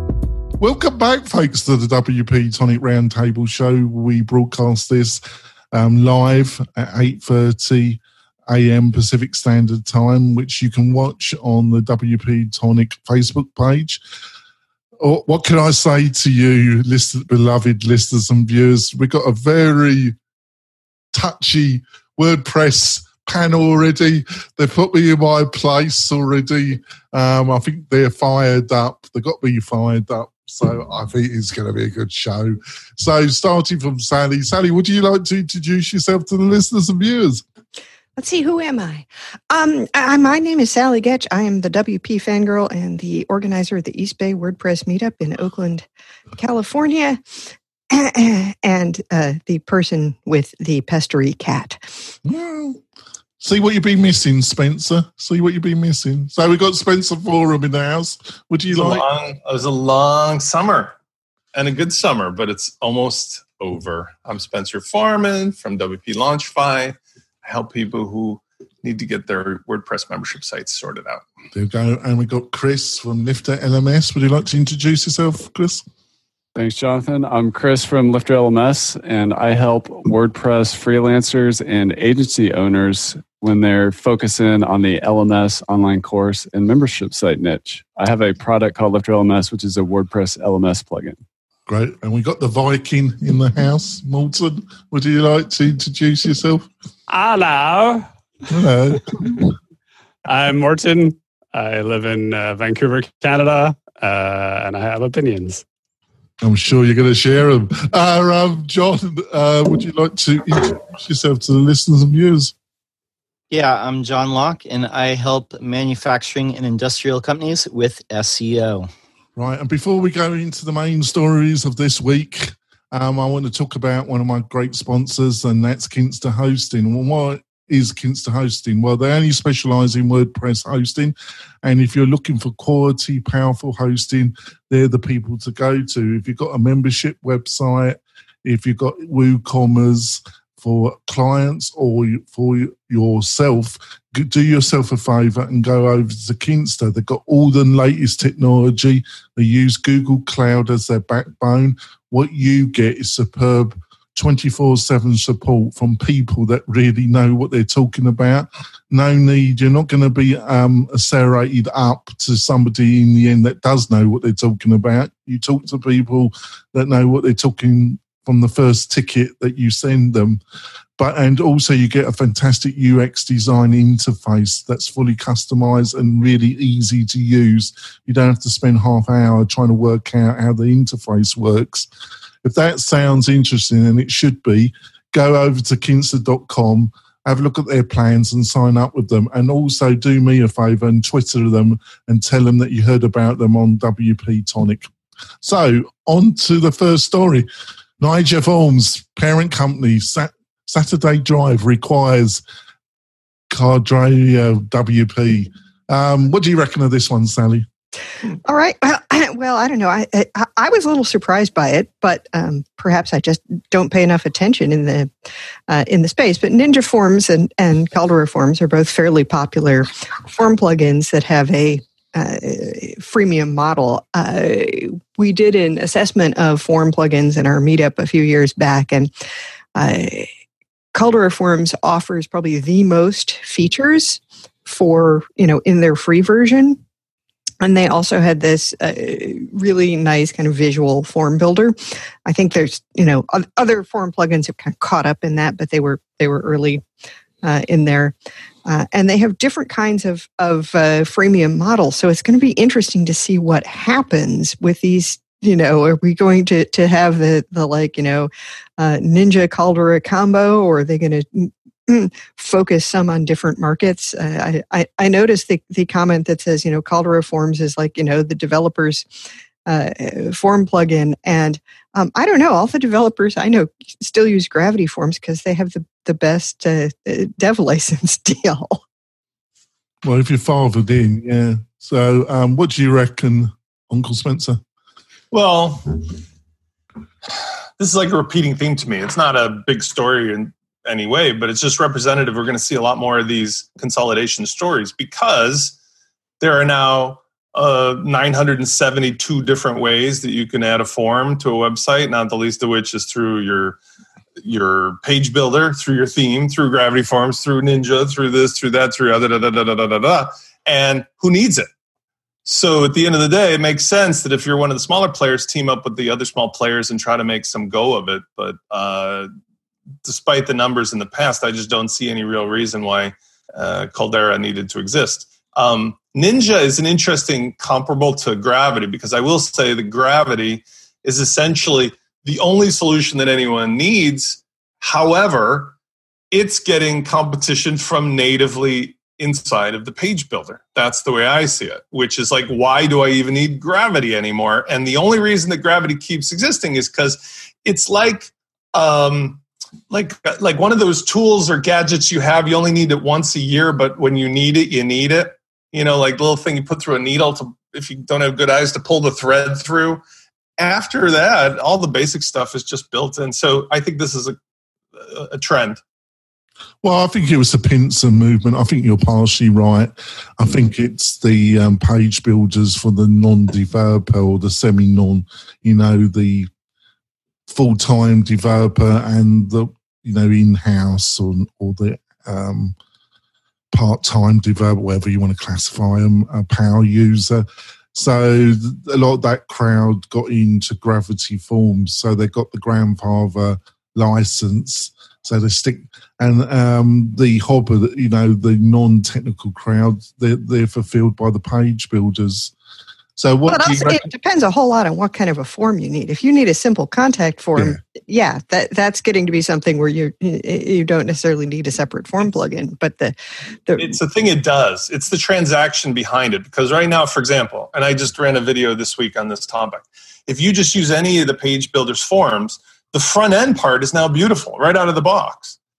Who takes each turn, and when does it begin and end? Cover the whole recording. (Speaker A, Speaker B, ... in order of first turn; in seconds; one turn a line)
Speaker A: 0.6-5.2
Speaker A: 5.7-14.0
Speaker A: 15.0-20.2
Speaker A: 21.1-37.4
Speaker B: 38.2-45.9
Speaker B: 46.4-47.2
Speaker B: 47.9-51.8
Speaker A: 52.2-52.8
Speaker A: 53.4-59.1
Speaker C: 58.7-61.0
Speaker C: 61.5-71.2
Speaker A: 71.5-75.8
Speaker D: 76.6-91.2
Speaker A: 91.7-96.7
Speaker E: 97.1-98.1
Speaker A: 98.5-99.5
Speaker E: 100.3-105.6
Speaker A: 106.4-112.5
Speaker F: 113.5-118.9
Speaker A: 119.4-170.4
Speaker A: 171.0-181.9
Speaker A: 182.4-194.9
Speaker A: 195.4-197.5
Speaker A: 198.0-202.4
Speaker A: 203.5-207.7
Speaker B: 208.4-215.1
Speaker B: 215.7-229.1
Speaker B: 229.8-230.3
Speaker B: 230.9-236.8
Speaker B: 237.6-246.8
Speaker B: 247.4-248.2
Speaker B: 248.7-269.1
Speaker B: 269.7-278.8
Speaker A: 280.0-284.6
Speaker C: 285.3-286.0
Speaker C: 287.8-295.8
Speaker C: 296.4-303.8
Speaker C: 304.4-311.7
Speaker C: 312.5-319.3
Speaker C: 320.1-335.8
Speaker C: 336.3-360.0
Speaker C: 360.6-364.4
Speaker C: 365.0-365.8
Speaker A: 366.8-376.5
Speaker A: 377.5-382.8
Speaker A: 383.7-402.5
Speaker A: 403.2-404.1
Speaker B: 403.5-414.0
Speaker C: 413.8-425.6